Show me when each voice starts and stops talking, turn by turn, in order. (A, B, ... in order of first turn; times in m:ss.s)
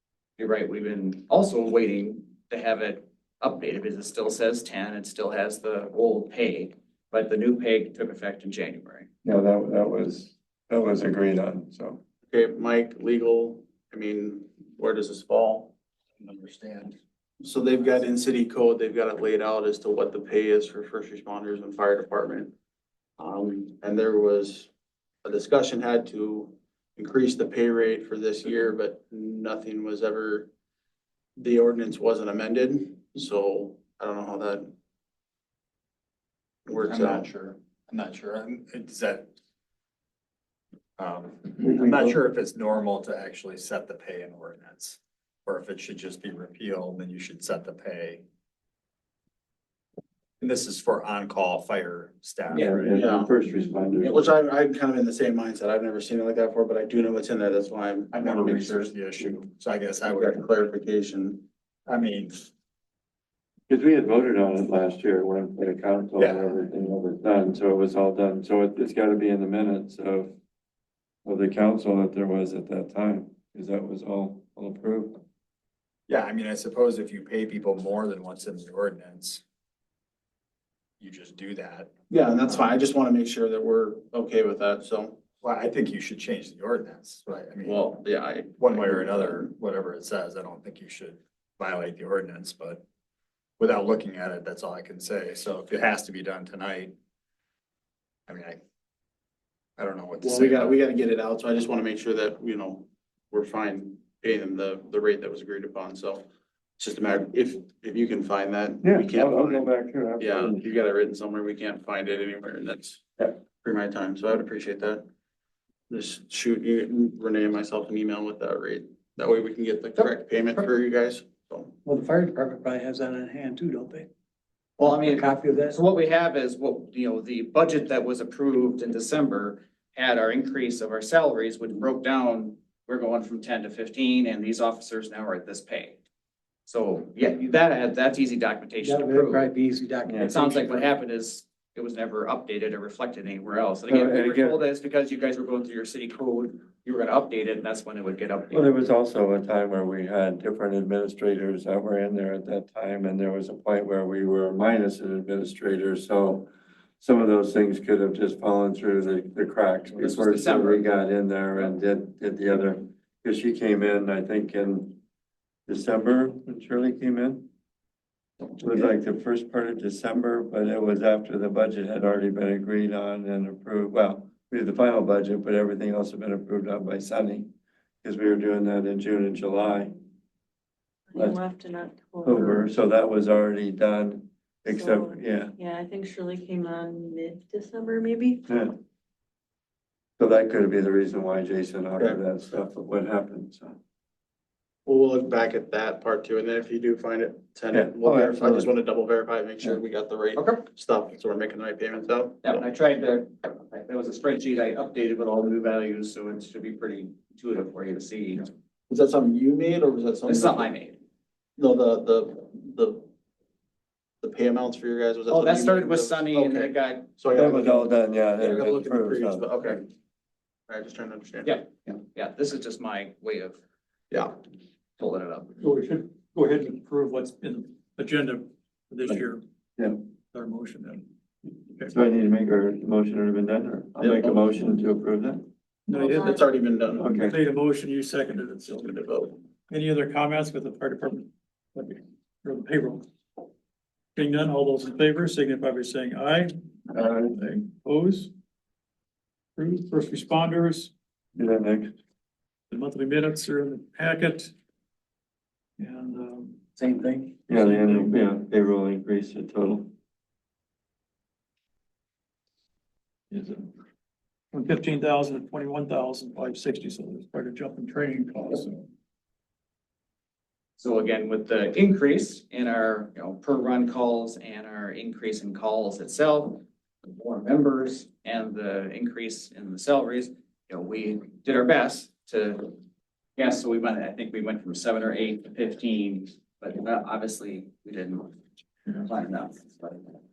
0:00.4-0:09.1 A
0:09.2-0:12.0 B
0:12.3-0:15.7 C
0:16.2-0:17.0 D
0:17.4-0:22.5 C
0:23.2-0:24.7 C
0:25.2-0:30.5 C
0:31.4-0:34.7 C
0:36.7-0:37.3 C
0:36.8-0:39.3 D
0:41.0-0:48.2 D
0:50.4-0:52.8 D
0:52.5-0:52.8 A
0:52.5-0:54.3 B
0:52.8-0:53.3 C
0:54.0-0:59.3 C
0:58.1-1:00.4 D
1:00.0-1:01.4 C
1:01.9-1:02.5 D
1:03.7-1:10.3 B
1:06.2-1:06.6 D
1:11.2-1:15.2 B
1:16.1-1:19.4 D
1:21.0-1:21.9 D
1:22.1-1:25.2 C
1:25.4-1:27.8 D
1:27.6-1:29.5 C
1:28.6-1:32.8 D
1:33.6-1:36.9 D
1:38.3-1:38.6 D
1:39.8-1:40.8 D
1:40.2-1:46.2 C
1:46.8-1:49.7 C
1:48.8-1:50.6 B
1:50.2-1:53.0 C
1:53.6-1:55.0 C
1:55.9-2:01.8 C
2:00.0-2:00.6 E
2:01.8-2:04.1 E
2:04.8-2:16.0 A
2:04.8-2:05.8 E
2:16.6-2:19.4 A
2:18.8-2:20.6 E
2:20.1-2:20.3 B
2:20.2-2:28.7 A
2:23.9-2:24.6 B
2:28.5-2:45.0 B
2:40.0-2:40.8 A
2:45.7-2:47.5 B
2:48.6-2:57.5 B
2:58.0-2:59.9 B
3:01.1-3:02.7 F
3:02.2-3:05.5 B
3:04.7-3:08.4 F
3:08.5-3:08.8 B
3:10.2-3:13.8 B
3:14.8-3:22.6 C
3:17.7-3:18.7 B
3:20.3-3:20.6 A
3:22.4-3:28.5 A
3:28.9-3:30.7 C
3:30.3-3:31.0 A
3:31.6-3:33.0 C
3:34.2-3:39.8 C
3:35.3-3:37.1 A
3:37.3-3:39.8 B
3:40.7-3:41.6 C
3:41.4-3:43.6 A
3:45.0-3:45.5 A
3:45.6-3:49.4 G
3:50.3-3:51.1 G
3:51.9-3:55.4 B
3:54.0-3:54.5 C
3:55.9-3:56.3 G
3:55.9-3:56.4 F
3:56.2-3:57.1 C
3:57.0-3:57.4 B
3:57.1-3:58.8 G
3:58.7-3:59.4 C
3:59.7-4:03.1 G
4:04.1-4:08.3 G
4:06.9-4:07.3 B
4:09.6-4:10.9 G
4:11.4-4:11.9 B
4:12.7-4:14.5 G
4:15.8-4:16.6 G
4:16.8-4:17.5 E
4:17.5-4:19.9 B
4:17.5-4:18.2 G
4:23.3-4:23.7 G
4:24.5-4:28.9 G
4:30.8-4:42.8 A
4:43.4-4:48.4 A
4:49.0-4:50.1 A